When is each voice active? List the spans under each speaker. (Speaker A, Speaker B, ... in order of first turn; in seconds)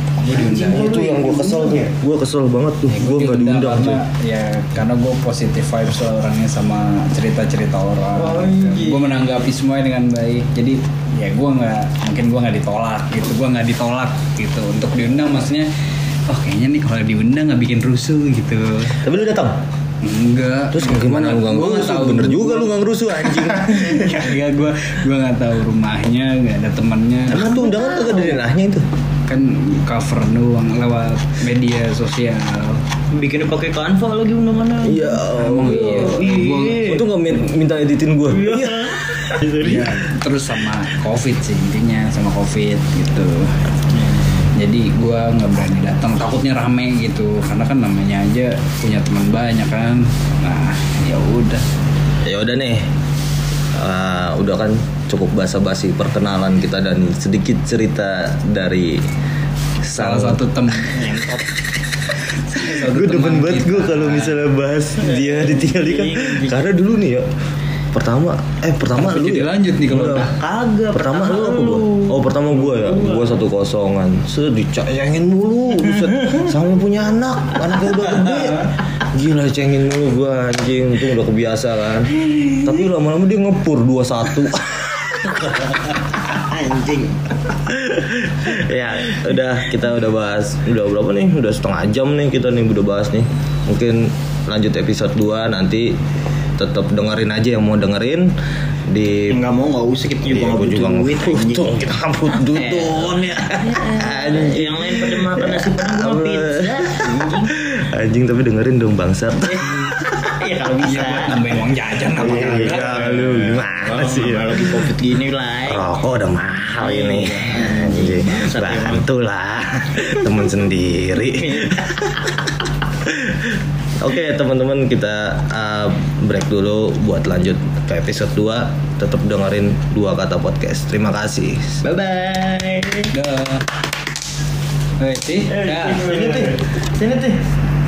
Speaker A: 0.2-0.9, 2.9-15.7, 16.3-19.0, 20.0-22.8, 23.3-27.5, 29.3-32.8, 35.3-37.0, 39.6-43.6, 44.5-51.6, 59.9-61.1, 62.5-64.4, 68.9-70.3, 78.2-78.7, 110.8-113.6, 133.1-133.6, 135.0-136.2
Speaker B: 0.3-1.9, 8.2-9.3, 27.4-28.3, 33.1-37.0, 38.3-39.9, 43.9-44.4, 60.9-61.4, 65.0-66.6, 70.0-73.4, 76.2-76.5, 77.7-78.6, 82.2-82.7, 86.2-87.5, 99.3-101.7, 102.3-107.5, 109.5-111.4, 112.2-115.8, 116.8-119.1, 121.2-122.4, 131.8-133.1, 135.5-137.4
Speaker C: 0.6-4.0, 19.0-19.6, 20.7-24.3, 27.3-28.9, 34.8-36.2, 36.8-39.4, 52.2-52.8, 53.7-59.0, 59.8-60.8, 62.5-67.2, 67.9-70.3, 70.9-86.2, 87.7-95.9, 96.6-98.3, 98.9-99.4, 100.2-110.0, 112.2-114.6, 115.7-131.8, 136.2-136.5